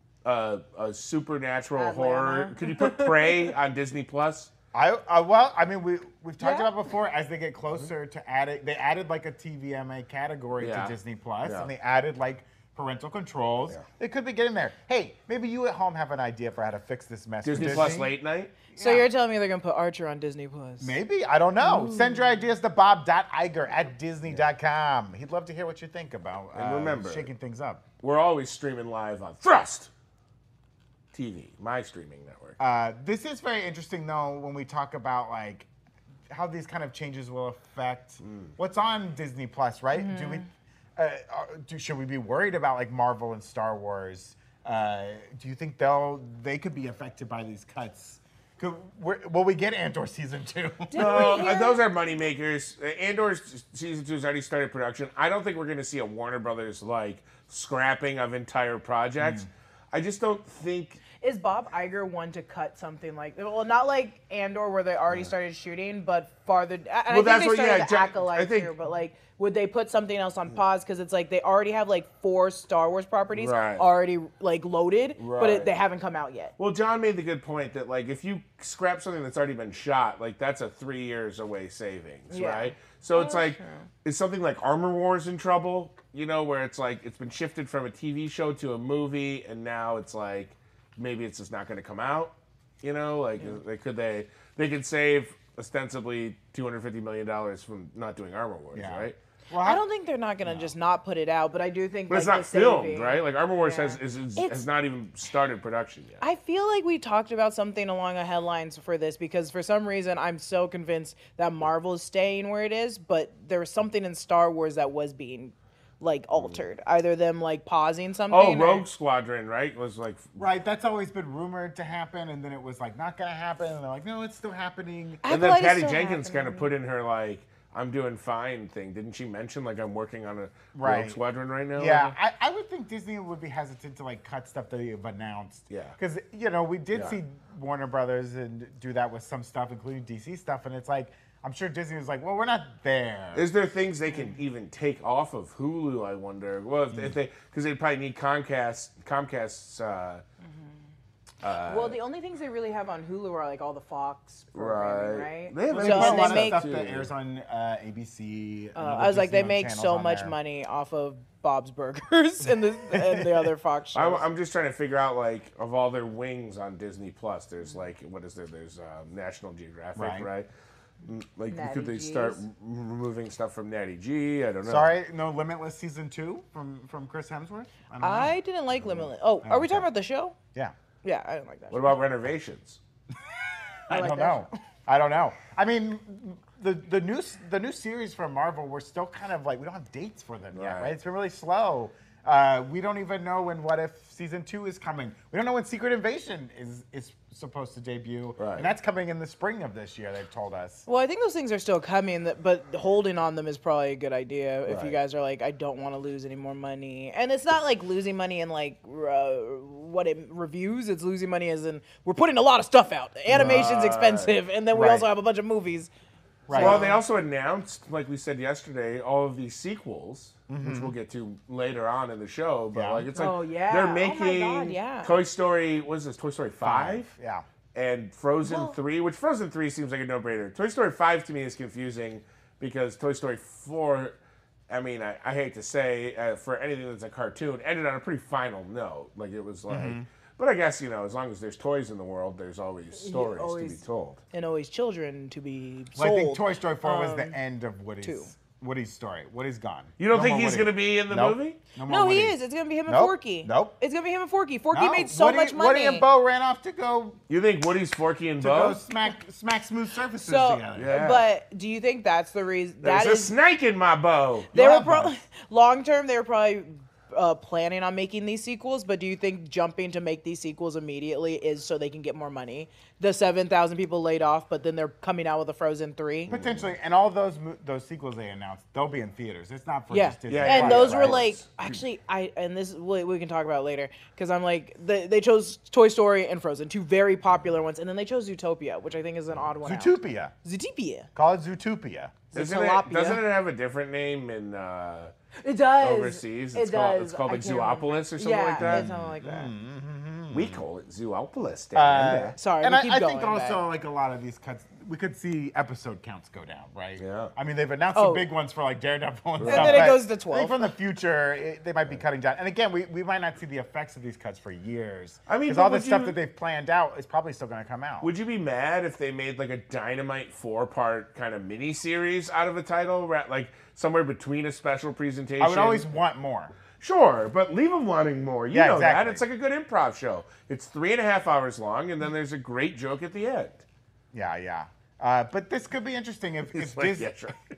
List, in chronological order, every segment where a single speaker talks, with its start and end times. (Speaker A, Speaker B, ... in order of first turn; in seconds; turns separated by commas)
Speaker A: 0.2-4.5, Speaker B: 1.8-3.5, Speaker C: 4.7-18.1, Speaker B: 6.4-6.7, Speaker A: 10.6-11.7, Speaker A: 17.4-18.5, Speaker C: 18.7-19.1, Speaker B: 18.8-21.0, Speaker C: 20.8-27.8, Speaker B: 21.6-22.2, Speaker A: 26.5-27.3, Speaker A: 28.0-29.9, Speaker A: 31.1-32.6, Speaker C: 32.6-35.7, Speaker C: 36.3-51.4, Speaker A: 38.2-38.5, Speaker B: 40.0-40.4, Speaker B: 50.9-51.8, Speaker A: 51.0-61.0, Speaker C: 59.2-59.5, Speaker B: 61.2-76.5, Speaker A: 67.1-68.7, Speaker A: 73.3-73.9, Speaker A: 75.2-75.7, Speaker A: 76.6-99.2, Speaker B: 82.3-83.8, Speaker C: 98.7-99.8, Speaker B: 99.6-104.7, Speaker A: 102.1-106.2, Speaker B: 106.2-118.8, Speaker A: 118.3-120.4, Speaker C: 120.4-125.2, Speaker B: 125.2-126.7, Speaker A: 125.3-132.2, Speaker C: 130.7-131.2, Speaker C: 131.8-143.5, Speaker A: 135.7-136.0, Speaker A: 143.3-150.2, Speaker A: 151.4-152.0, Speaker B: 151.6-156.6, Speaker A: 154.5-157.1, Speaker C: 155.7-160.4, Speaker B: 158.8-164.2, Speaker C: 162.9-163.4, Speaker A: 163.9-170.5, Speaker C: 170.0-170.3, Speaker A: 171.0-174.9, Speaker B: 171.5-172.4, Speaker C: 174.7-178.4, Speaker B: 178.0-180.3, Speaker C: 179.4-179.9, Speaker B: 181.0-182.0, Speaker A: 181.7-182.8, Speaker C: 183.9-200.8, Speaker B: 183.9-184.5, Speaker A: 190.5-190.9, Speaker A: 198.4-198.7, Speaker B: 200.9-215.9, Speaker A: 204.7-205.0, Speaker A: 213.3-214.3, Speaker C: 213.3-213.6, Speaker C: 214.7-215.1, Speaker C: 216.5-216.9, Speaker B: 216.5-216.9, Speaker A: 216.5-227.1, Speaker C: 220.5-220.9, Speaker C: 222.7-223.1, Speaker B: 223.1-225.1, Speaker C: 226.6-227.4, Speaker A: 227.8-234.1, Speaker B: 228.4-228.8, Speaker A: 234.7-244.2, Speaker C: 239.7-240.1, Speaker B: 243.0-243.8, Speaker B: 244.3-247.4, Speaker C: 246.0-252.4, Speaker B: 248.0-248.3, Speaker A: 250.0-251.6, Speaker B: 251.8-256.1, Speaker C: 252.9-253.8, Speaker C: 254.7-257.2, Speaker A: 257.3-258.8, Speaker C: 258.4-261.0, Speaker B: 260.2-263.3, Speaker A: 260.7-261.3, Speaker A: 262.8-264.5, Speaker C: 264.5-265.2, Speaker B: 264.5-276.3, Speaker C: 276.3-281.2, Speaker A: 276.3-276.7, Speaker B: 279.9-291.1, Speaker A: 280.3-281.8, Speaker C: 289.6-290.3, Speaker C: 291.1-292.2, Speaker B: 292.3-293.2, Speaker A: 292.4-295.1, Speaker B: 295.4-299.5, Speaker A: 295.8-298.9, Speaker C: 298.6-300.6, Speaker A: 300.3-302.4, Speaker C: 301.7-318.1, Speaker B: 302.4-303.6, Speaker A: 307.0-307.3, Speaker B: 307.9-308.3, Speaker A: 309.4-310.0, Speaker B: 309.5-310.7, Speaker A: 315.3-316.2, Speaker A: 318.0-325.9, Speaker C: 325.4-326.6, Speaker A: 326.8-333.6, Speaker C: 328.5-329.2, Speaker C: 334.1-337.1, Speaker A: 336.5-337.4